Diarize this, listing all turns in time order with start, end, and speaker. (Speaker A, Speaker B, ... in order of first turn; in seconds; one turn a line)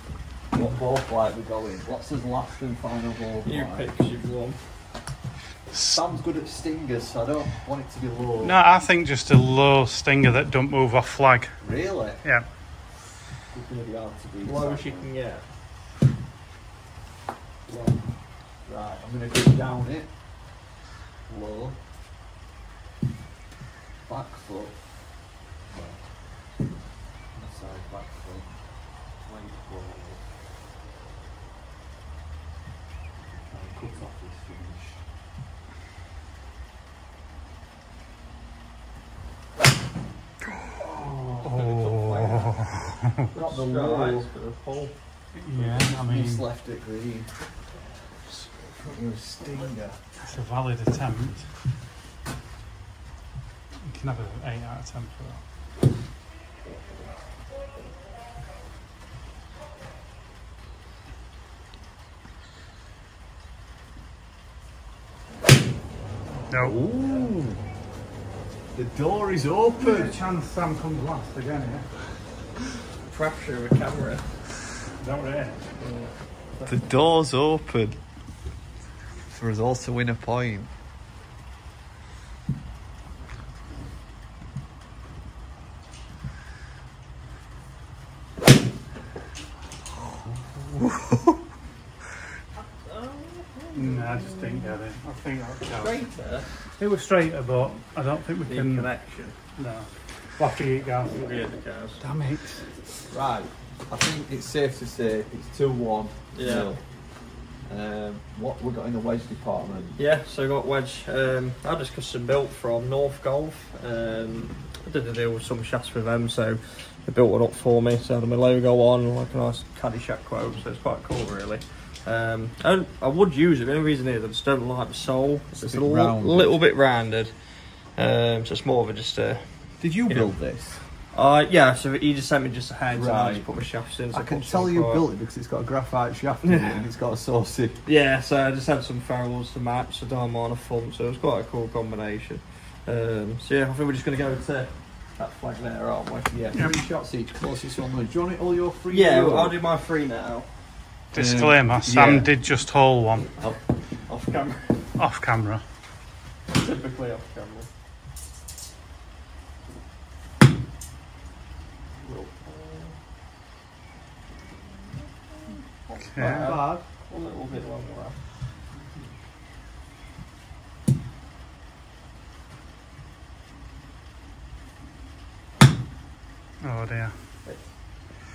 Speaker A: 0.5-3.9
Speaker B: 3.4-4.6
Speaker A: 5.7-8.6
Speaker C: 8.4-11.6
Speaker A: 11.6-12.2
Speaker A: 13.5-15.1
Speaker B: 14.4-15.4
Speaker A: 17.7-18.0
Speaker A: 18.6-20.1
Speaker A: 21.3-21.8
Speaker A: 24.1-24.8
Speaker A: 25.7-26.0
Speaker A: 27.3-28.6
Speaker A: 29.2-30.2
Speaker A: 33.2-35.0
Speaker A: 40.8-41.5
Speaker B: 41.2-42.7
Speaker C: 41.4-43.3
Speaker B: 43.3-44.9
Speaker A: 43.3-44.3
Speaker C: 45.3-46.4
Speaker A: 45.5-47.3
Speaker B: 48.1-49.1
Speaker A: 48.9-50.0
Speaker C: 50.2-51.5
Speaker C: 53.8-55.4
Speaker C: 66.5-66.8
Speaker A: 66.5-67.6
Speaker B: 67.0-67.3
Speaker A: 68.7-70.2
Speaker C: 69.8-72.2
Speaker B: 73.1-74.4
Speaker C: 75.0-75.6
Speaker B: 75.8-76.8
Speaker A: 76.6-78.0
Speaker A: 79.3-80.7
Speaker A: 90.0-91.3
Speaker B: 92.5-94.8
Speaker C: 93.7-96.0
Speaker B: 95.7-96.5
Speaker C: 96.8-98.9
Speaker B: 98.5-99.3
Speaker C: 99.5-101.3
Speaker B: 101.1-102.0
Speaker C: 102.0-102.7
Speaker A: 103.1-106.8
Speaker B: 106.3-106.7
Speaker A: 107.7-110.0
Speaker B: 110.0-129.5
Speaker A: 125.6-126.5
Speaker A: 129.8-130.8
Speaker B: 130.1-130.3
Speaker B: 130.8-135.0
Speaker A: 132.9-133.5
Speaker A: 134.1-137.8
Speaker B: 136.4-136.8
Speaker B: 137.8-146.4
Speaker A: 146.3-149.6
Speaker B: 148.9-150.5
Speaker C: 151.1-153.3
Speaker A: 151.1-152.3
Speaker B: 153.9-154.9
Speaker C: 154.9-155.6
Speaker B: 156.5-157.7
Speaker B: 162.0-162.9
Speaker B: 165.5-168.2
Speaker C: 166.1-166.6
Speaker A: 166.2-166.8
Speaker C: 176.6-177.1